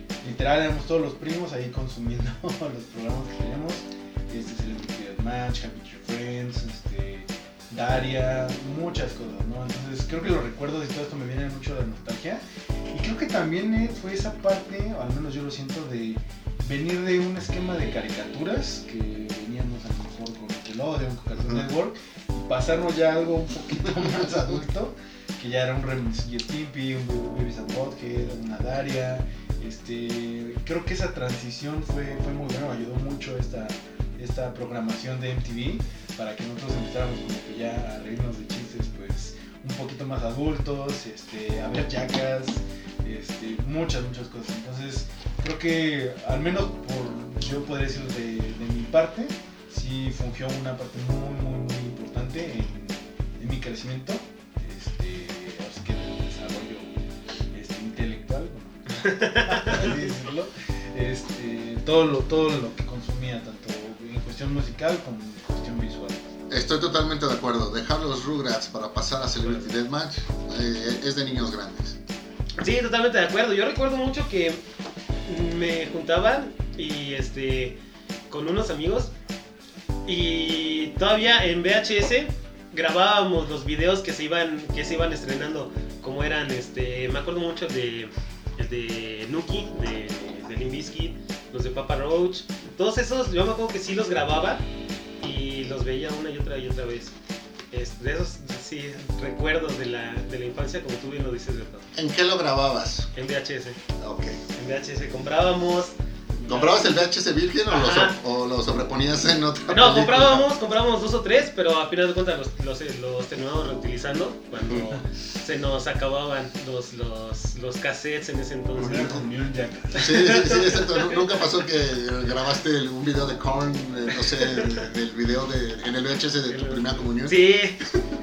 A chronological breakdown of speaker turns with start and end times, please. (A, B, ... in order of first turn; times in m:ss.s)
0:00.2-0:56.9 A
0:21.4-0:21.6 B
0:57.5-1:06.2 A
0:59.2-0:59.9 C
1:06.5-1:12.0 B
1:09.4-1:09.7 C
1:12.6-1:14.6 C
1:15.3-1:17.8 C
1:18.3-1:19.1 C
1:20.1-1:34.6 C
1:35.2-1:37.1 C
1:37.7-1:41.9 C
1:41.9-1:43.1 B
1:43.2-1:43.8 C
1:44.0-1:44.4 B
1:44.6-1:47.1 C
1:46.4-1:50.5 B
1:47.7-1:48.2 C
1:49.7-1:59.3 C
1:58.8-2:00.5 A
2:00.0-2:07.4 B
2:00.3-2:01.1 C
2:04.3-2:04.7 C
2:06.5-2:07.9 C